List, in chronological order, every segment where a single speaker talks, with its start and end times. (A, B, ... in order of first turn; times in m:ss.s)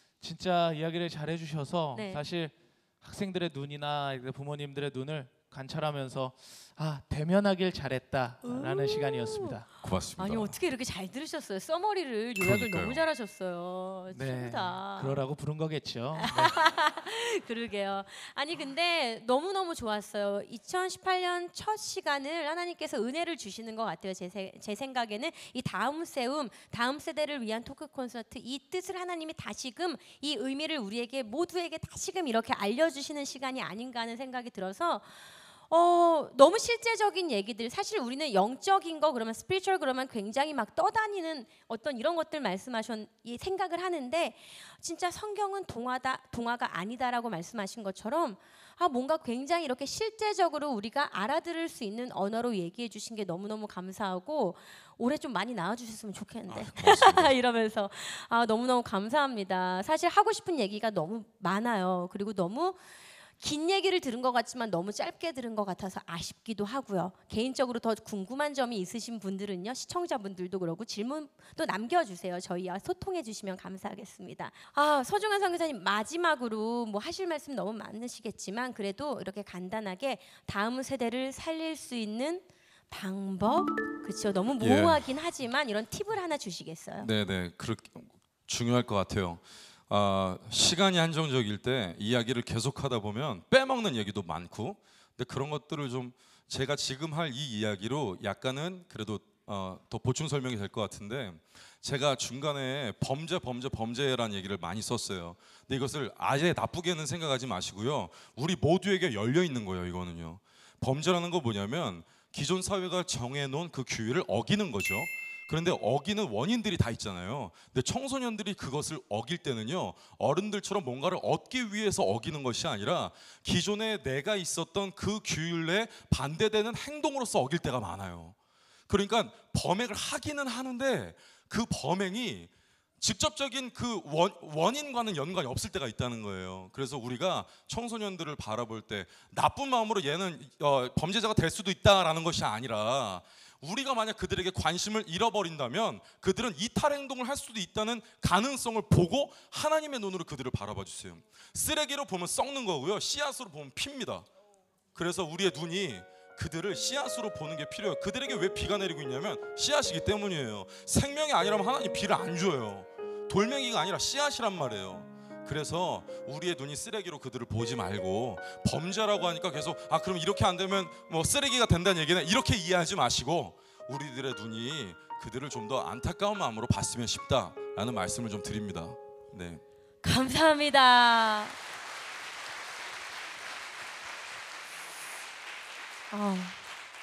0:00.2-0:09.6 A
0:01.9-0:02.2 B
0:08.4-0:09.6 B
0:09.8-0:10.6 C
0:10.2-0:15.2 B
0:12.4-0:13.0 C
0:14.1-0:16.5 A
0:16.2-1:02.8 B
0:56.5-0:57.3 C
1:03.4-1:27.1 B
1:24.6-1:25.0 C
1:27.0-2:08.3 C
2:08.9-2:34.2 C
2:34.9-2:59.6 C
3:00.0-3:01.6 B
3:06.1-3:06.6 B